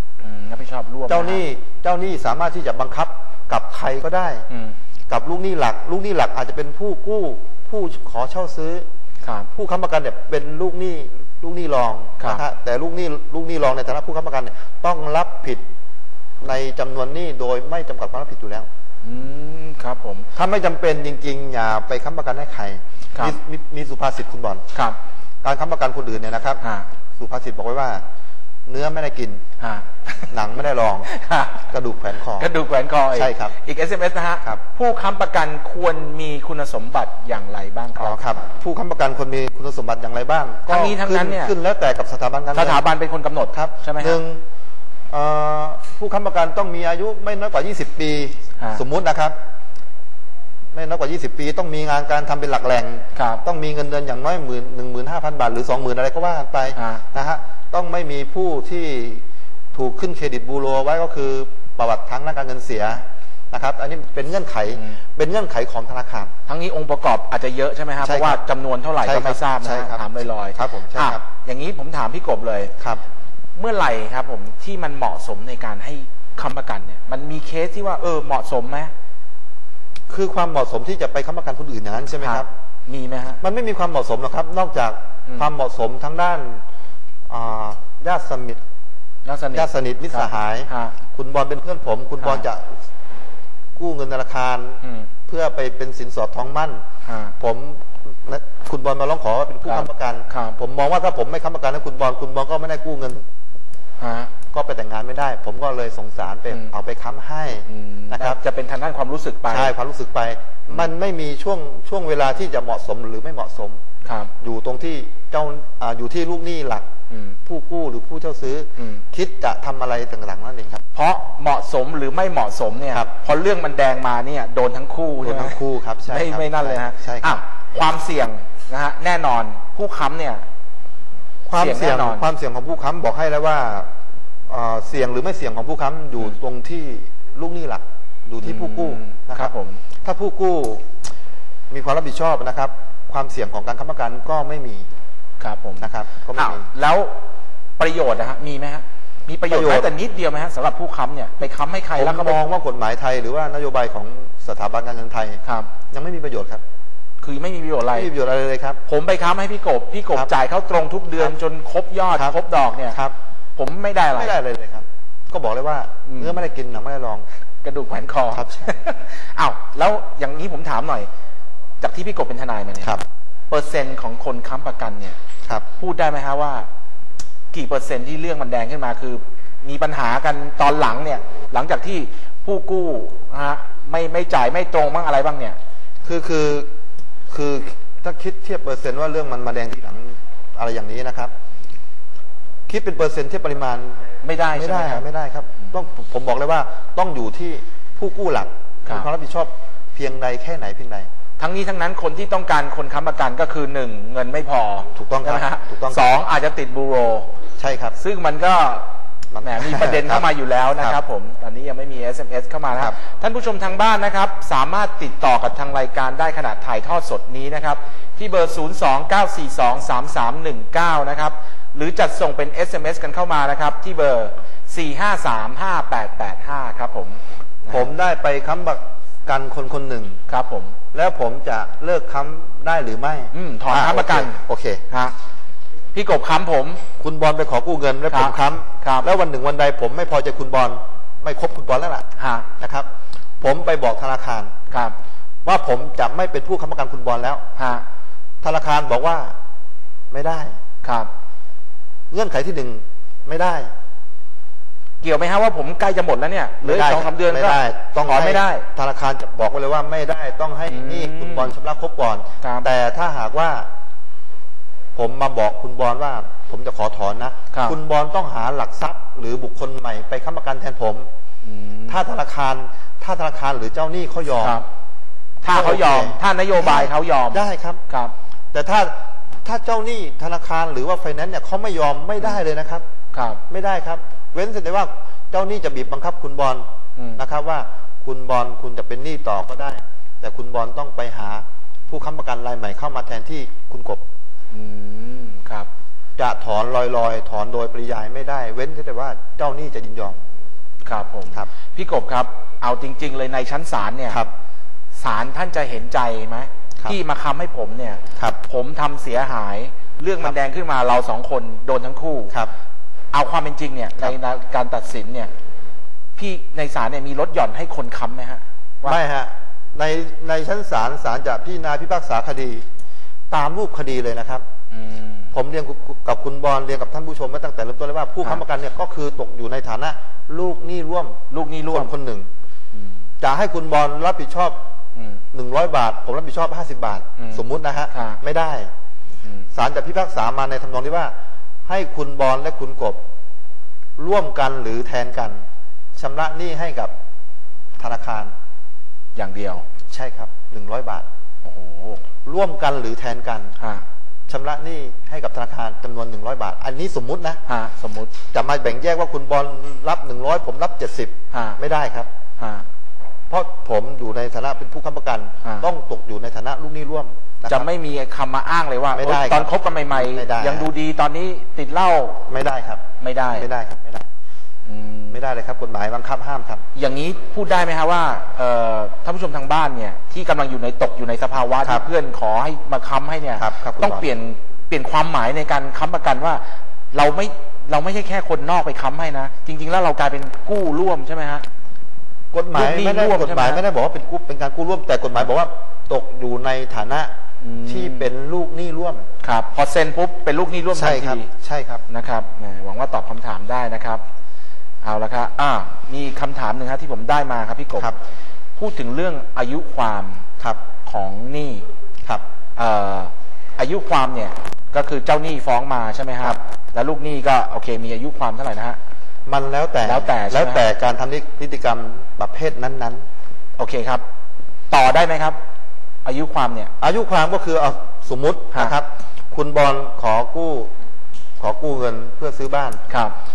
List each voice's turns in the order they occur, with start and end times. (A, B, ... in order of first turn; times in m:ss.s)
0:00.2-0:01.4 A
0:01.1-0:04.4 B
0:04.5-0:04.8 A
0:05.1-0:08.9 B
0:09.2-0:09.5 A
0:09.5-0:15.6 B
0:16.4-0:18.7 B
0:19.0-0:20.3 A
0:20.3-0:24.6 B
0:25.4-0:26.6 B
0:26.6-0:26.9 A
0:27.2-0:28.0 B
0:28.7-0:29.4 B
0:29.6-0:30.3 A
0:30.3-0:31.1 B
0:31.1-0:31.7 A
0:31.7-0:32.5 B
0:32.4-0:38.2 A
0:33.1-0:33.6 B
0:38.0-0:42.8 B
0:40.7-0:41.5 A
0:42.5-0:44.2 A
0:43.5-0:44.4 B
0:45.1-0:49.3 B
0:50.7-1:06.3 B
0:53.2-0:53.4 A
0:56.7-0:57.0 A
1:06.5-1:12.7 A
1:08.0-1:08.4 B
1:09.0-1:11.2 B
1:13.6-1:18.9 A
1:20.1-1:22.5 B
1:22.2-1:23.4 A
1:23.4-1:26.6 B
1:27.3-1:28.6 B
1:29.2-1:31.0 A
1:29.5-1:32.8 B
1:32.2-1:32.4 A
1:33.8-1:36.8 B
1:34.8-1:35.1 A
1:37.0-1:37.3 A
1:37.4-1:43.2 B
1:39.6-1:40.6 A
1:44.0-1:44.3 A
1:44.5-1:48.4 B
1:47.7-1:49.7 A
1:49.5-1:53.8 B
1:54.0-1:54.3 A
1:54.4-1:56.8 B
1:57.1-1:57.4 A
1:57.4-2:00.8 B
1:58.8-1:59.0 A
2:00.9-2:10.4 A
2:05.2-2:07.4 B
2:11.5-2:13.9 B
2:11.5-2:12.3 A
2:14.5-2:20.8 B
2:18.4-2:19.8 A
2:21.7-2:24.8 B
2:25.4-2:27.1 A
2:25.8-2:26.7 B
2:27.8-2:32.4 A
2:29.5-2:29.9 B
2:32.0-2:35.4 B
2:35.4-2:35.7 A
2:35.9-2:36.6 B
2:37.2-2:38.1 A
2:37.9-2:38.8 B
2:38.8-2:43.0 A
2:42.1-2:42.4 B
2:43.6-2:44.4 A
2:44.1-2:47.2 B
2:46.1-2:46.4 A
2:47.6-2:51.1 A
2:48.3-2:48.7 B
2:51.8-2:53.0 A
2:53.5-2:55.2 A
2:55.8-2:56.7 A
2:57.5-3:05.6 A
3:06.0-3:06.7 B
3:07.3-3:11.3 B
3:12.7-3:14.0 B
3:14.2-3:15.0 A
3:14.5-3:21.1 B
3:21.4-3:27.3 A
3:24.9-3:26.0 B
3:27.6-3:28.0 B
3:28.0-3:28.8 A
3:29.3-3:31.0 B
3:29.4-3:47.9 A
3:47.7-3:50.2 B
3:50.3-3:50.7 A
3:50.9-3:54.8 B
3:53.3-3:55.1 A
3:55.9-3:56.8 A
3:57.0-4:02.1 B
3:58.1-3:59.1 A
4:02.2-4:02.5 A
4:02.6-4:02.9 B
4:03.4-4:04.5 B
4:04.7-4:05.0 A
4:05.4-4:07.4 B
4:07.6-4:07.8 A
4:08.4-4:09.3 B
4:10.1-4:10.5 B
4:10.8-4:11.1 A
4:12.1-4:13.7 B
4:15.0-4:18.6 A
4:16.6-4:23.7 B
4:20.7-4:21.5 A
4:22.4-4:22.7 A
4:24.9-4:31.1 B
4:27.5-4:27.8 A
4:31.4-4:32.0 A
4:31.9-4:34.6 B
4:34.4-4:34.6 A
4:35.4-4:38.1 A
4:35.5-4:37.8 B
4:38.5-4:42.8 B
4:43.1-4:43.4 A
4:43.5-4:46.6 B
4:47.2-4:54.0 B
4:54.5-4:55.7 A
4:56.2-5:00.2 B
5:00.8-5:04.2 A
5:04.9-5:12.4 A
5:13.1-5:15.3 A
5:16.2-5:19.0 A
5:18.8-5:22.6 B
5:23.3-5:24.4 B
5:24.7-5:25.3 A
5:25.3-5:32.3 B
5:31.3-5:31.9 A
5:32.7-5:33.0 A
5:33.2-5:34.6 B
5:35.0-5:35.2 A
5:35.3-5:38.7 B
5:37.2-5:38.2 A
5:39.5-5:41.1 B
5:41.7-5:43.0 B
5:44.0-5:45.4 B
5:46.0-5:46.9 B
5:47.8-5:48.3 B
5:49.2-5:49.6 A
5:49.9-5:51.0 B
5:51.4-5:52.0 A
5:52.2-5:53.6 B
5:53.6-5:53.8 A
5:54.3-5:57.4 B
5:57.5-5:58.1 A
5:58.3-6:02.1 B
6:01.3-6:01.6 A
6:02.4-6:02.7 A
6:03.3-6:07.7 B
6:07.5-6:12.2 A
6:08.9-6:10.7 B
6:12.3-6:12.8 B
6:13.0-6:13.5 A
6:13.3-6:14.1 B
6:14.6-6:15.2 A
6:15.1-6:16.6 B
6:16.7-6:31.4 A
6:23.4-6:24.1 B
6:32.3-6:37.1 B
6:32.5-6:33.6 A
6:37.4-6:38.1 A
6:37.7-6:39.0 B
6:39.2-6:41.3 A
6:40.7-6:41.8 B
6:41.9-6:44.0 A
6:44.8-6:47.9 A
6:48.6-6:50.2 A
6:50.8-6:51.6 A
6:52.6-6:58.8 A
6:59.2-7:03.0 B
6:59.8-7:00.6 A
7:03.6-7:04.0 A
7:04.7-7:05.4 A
7:06.0-7:06.7 A
7:06.8-7:10.7 B
7:11.4-7:12.8 B
7:12.9-7:13.1 A